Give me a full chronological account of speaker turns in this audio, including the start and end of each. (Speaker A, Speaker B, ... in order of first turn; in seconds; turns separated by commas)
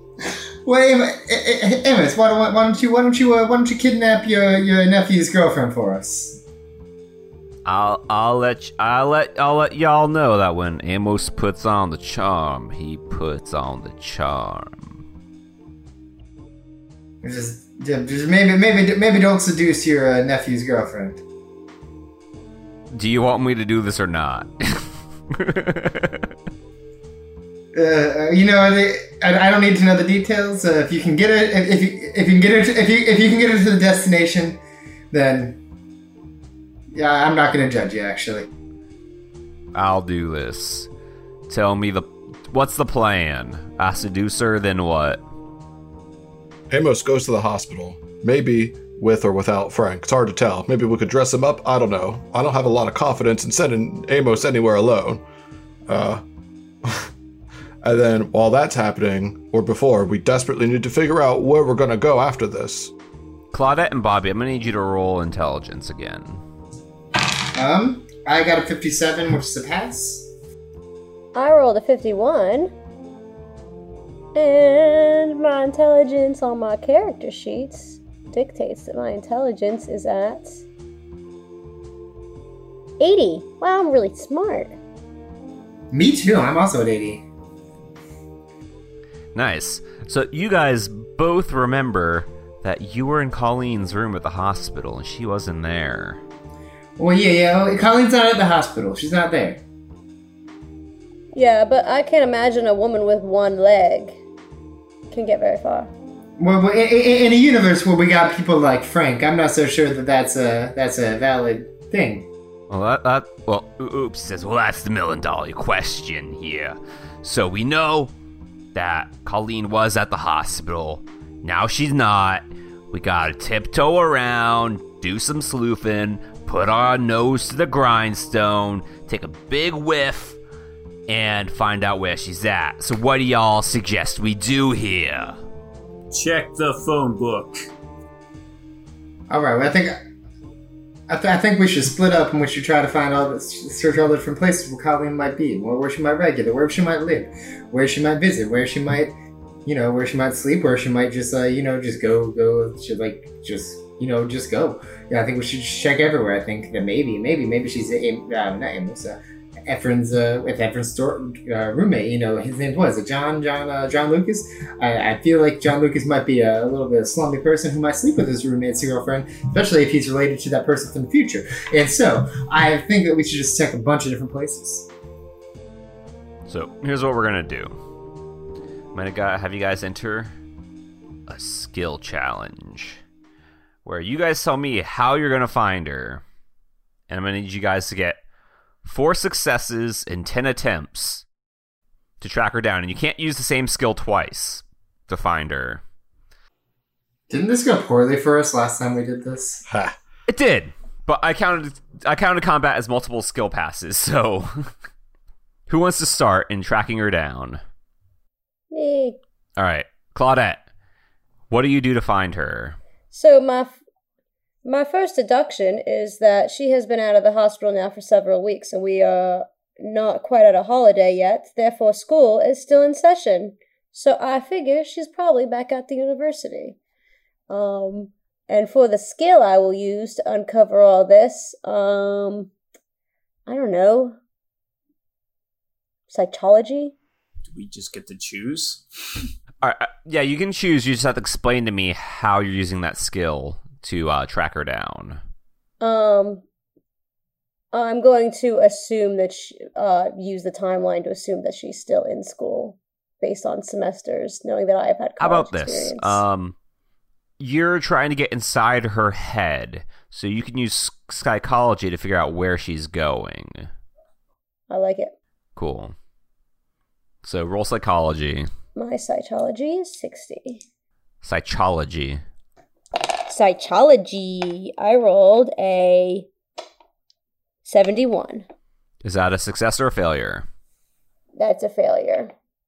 Speaker A: 0.7-6.4, Speaker B: 7.7-15.0, Speaker A: 17.2-21.2, Speaker B: 22.9-26.3, Speaker A: 27.7-34.6, Speaker A: 35.1-35.6, Speaker A: 36.9-38.5, Speaker B: 39.7-40.9, Speaker B: 41.5-45.2, Speaker C: 46.7-55.2, Speaker C: 55.9-56.2, Speaker C: 57.8-62.9, Speaker B: 63.5-66.4, Speaker A: 67.6-70.3, Speaker D: 71.3-72.7, Speaker D: 74.3-80.6, Speaker D: 83.0-84.8, Speaker A: 85.9-87.2, Speaker B: 89.3-96.2, Speaker A: 97.0-99.6, Speaker D: 101.3-104.2, Speaker D: 105.1-105.9, Speaker A: 106.4-112.3, Speaker B: 112.7-118.1, Speaker B: 118.8-130.4, Speaker B: 131.1-135.4, Speaker E: 136.1-137.6, Speaker A: 139.3-140.0, Speaker A: 141.1-149.1, Speaker A: 149.7-174.9, Speaker B: 176.5-177.7, Speaker B: 178.9-180.3, Speaker B: 181.3-183.0, Speaker B: 183.8-186.2, Speaker B: 187.1-188.2, Speaker B: 188.8-191.2, Speaker B: 192.2-195.8, Speaker A: 197.3-199.6, Speaker C: 199.7-200.0, Speaker B: 200.3-204.5, Speaker B: 205.7-207.6, Speaker D: 208.7-209.2, Speaker B: 209.6-210.6, Speaker B: 211.5-212.8, Speaker D: 213.1-213.8, Speaker D: 214.7-226.8, Speaker D: 227.5-232.5, Speaker D: 233.5-234.2, Speaker D: 236.1-236.9, Speaker E: 237.4-238.8, Speaker B: 239.6-245.2, Speaker D: 245.8-246.4, Speaker D: 247.7-256.2, Speaker B: 255.2-256.6, Speaker B: 257.4-263.7, Speaker D: 264.7-265.1, Speaker B: 265.6-265.9, Speaker B: 267.2-268.5, Speaker D: 268.8-270.6, Speaker B: 271.2-272.2, Speaker D: 273.3-276.3, Speaker D: 277.6-278.5, Speaker B: 279.0-280.5, Speaker D: 281.4-282.3